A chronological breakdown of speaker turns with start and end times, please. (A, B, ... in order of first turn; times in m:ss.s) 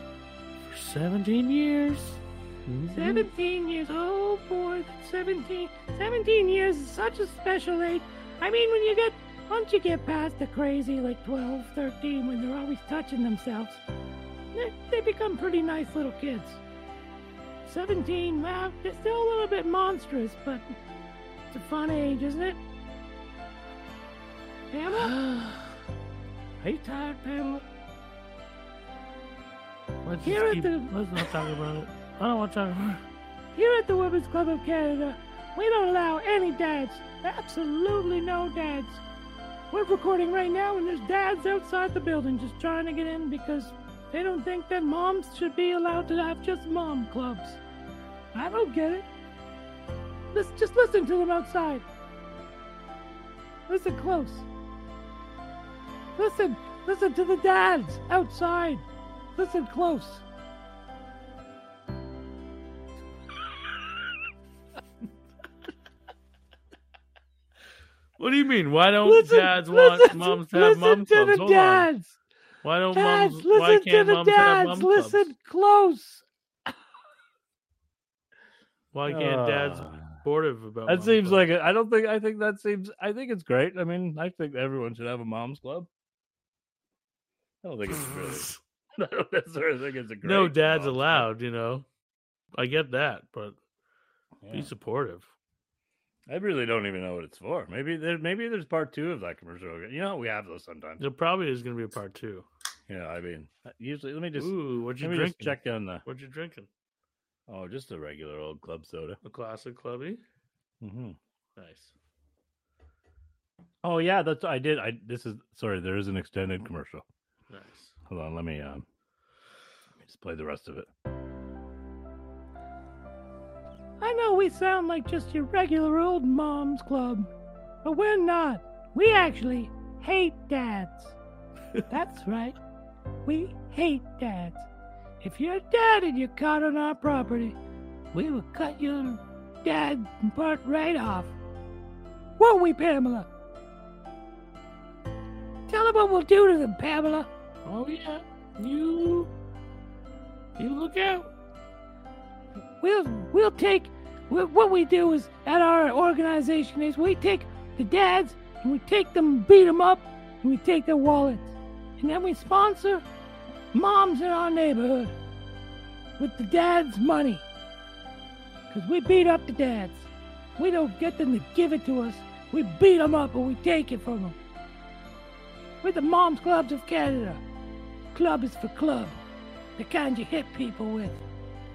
0:00.6-0:03.3 A
0:02.9-0:13.8 B
0:14.5-0:16.6 B
0:17.6-0:20.7 B
0:21.5-0:22.6 B
0:24.7-0:25.1 B
0:26.6-0:27.6 B
0:30.0-0:33.0 A
0:30.2-0:30.9 B
0:33.5-0:39.0 B
0:39.7-0:47.6 B
0:48.3-0:49.1 B
0:50.3-0:51.8 B
0:53.7-0:54.5 B
0:56.2-0:58.8 B
0:59.4-1:00.2 B
1:08.2-1:11.9 A
1:09.0-1:12.1 B
1:12.6-1:15.3 A
1:12.9-1:15.8 B
1:15.6-1:16.2 C
1:18.9-1:21.5 A
1:19.1-1:20.2 C
1:20.9-1:25.9 C
1:27.6-1:31.3 C
1:28.1-1:28.6 A
1:30.2-1:31.9 A
1:32.5-1:33.6 A
1:34.4-1:34.7 C
1:34.5-1:35.3 A
1:36.3-1:41.0 C
1:41.0-1:42.5 A
1:42.9-1:46.0 C
1:44.4-1:46.7 A
1:47.5-1:49.2 C
1:49.2-1:50.2 A
1:50.8-1:51.2 C
1:51.6-1:51.9 A
1:53.8-1:57.0 C
1:57.5-1:58.0 A
1:58.1-1:58.8 C
2:00.0-2:00.9 C
2:04.0-2:07.3 B
2:07.8-2:11.2 B
2:11.9-2:12.6 B
2:13.2-2:14.7 B
2:15.2-2:17.6 B
2:18.1-2:21.4 B
2:22.4-2:23.3 B
2:25.7-2:27.3 B
2:27.6-2:29.3 A
2:30.6-2:31.3 A
2:32.8-2:43.0 B
2:43.7-2:45.1 B
2:46.2-2:47.4 B
2:48.7-2:54.4 B
2:55.8-2:57.4 B
2:58.1-2:59.2 B
2:59.8-3:01.2 B